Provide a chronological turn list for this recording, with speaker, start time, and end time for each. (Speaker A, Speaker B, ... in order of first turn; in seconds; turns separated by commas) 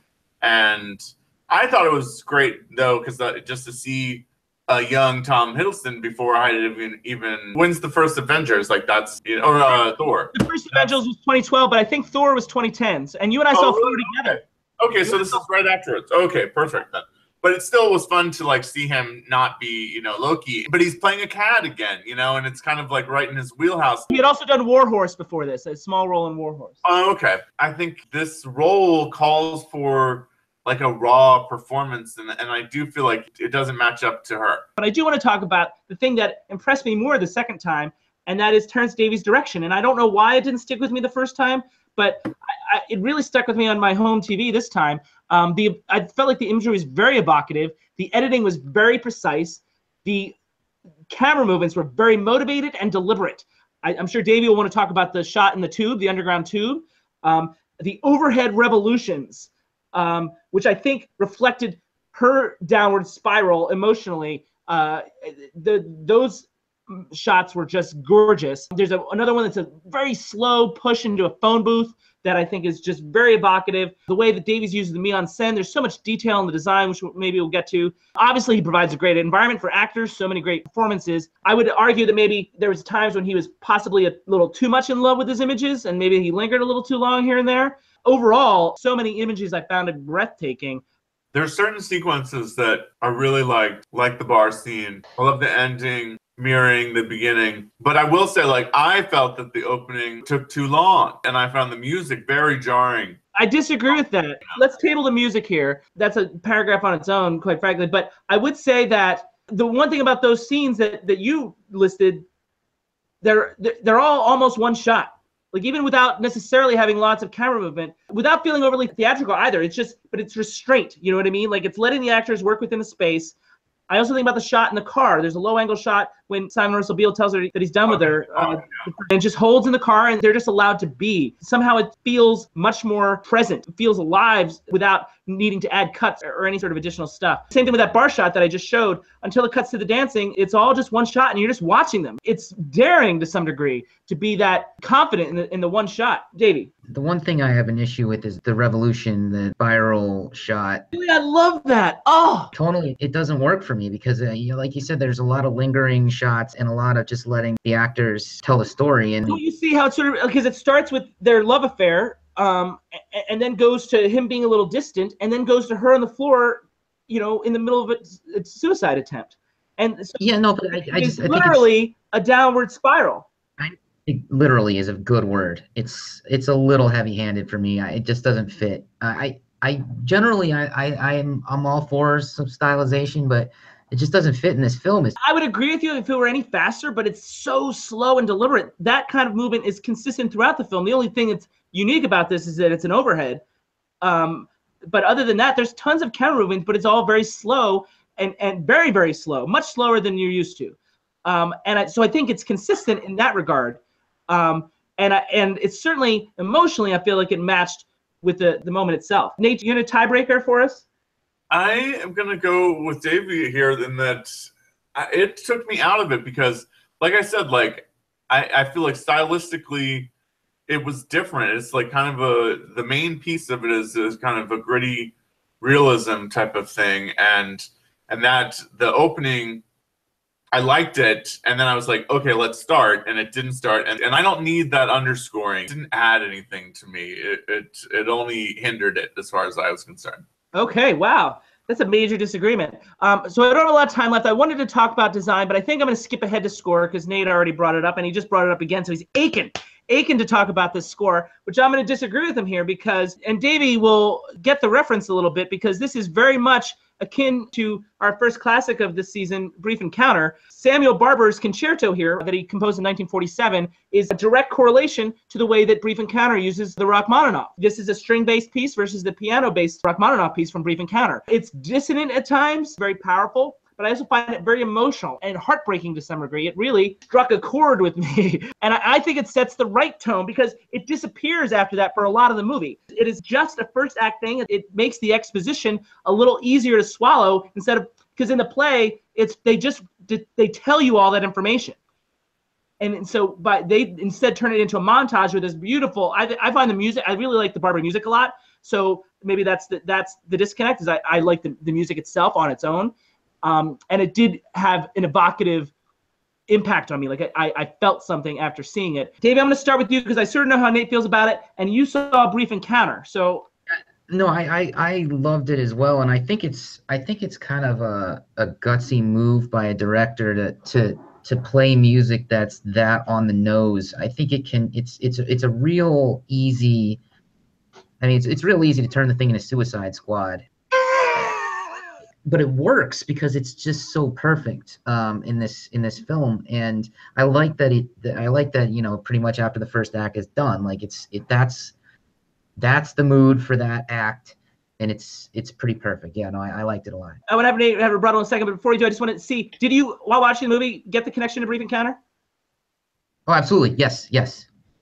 Speaker A: 0.4-11.0, Speaker B: 10.3-14.4, Speaker A: 13.5-24.1, Speaker B: 15.0-15.4, Speaker B: 24.1-26.8, Speaker A: 26.8-34.7, Speaker B: 34.8-50.4, Speaker B: 51.1-90.8, Speaker A: 91.3-103.2, Speaker B: 103.3-112.2, Speaker B: 113.2-123.3, Speaker B: 123.9-146.7, Speaker A: 127.9-128.8, Speaker C: 146.9-150.9, Speaker B: 150.9-152.5, Speaker C: 152.5-159.4, Speaker B: 159.3-170.2, Speaker C: 170.2-171.7, Speaker B: 170.7-173.3, Speaker C: 173.6-185.2, Speaker B: 185.2-193.4, Speaker B: 194.0-210.8, Speaker A: 211.5-220.1, Speaker A: 220.7-229.6, Speaker A: 230.5-240.2, Speaker B: 240.5-291.8, Speaker B: 292.8-305.7, Speaker B: 306.5-313.5, Speaker C: 314.1-327.0, Speaker C: 328.0-330.4, Speaker C: 331.1-331.4, Speaker C: 332.2-341.7, Speaker C: 342.6-347.2, Speaker B: 347.3-352.0, Speaker C: 353.3-354.5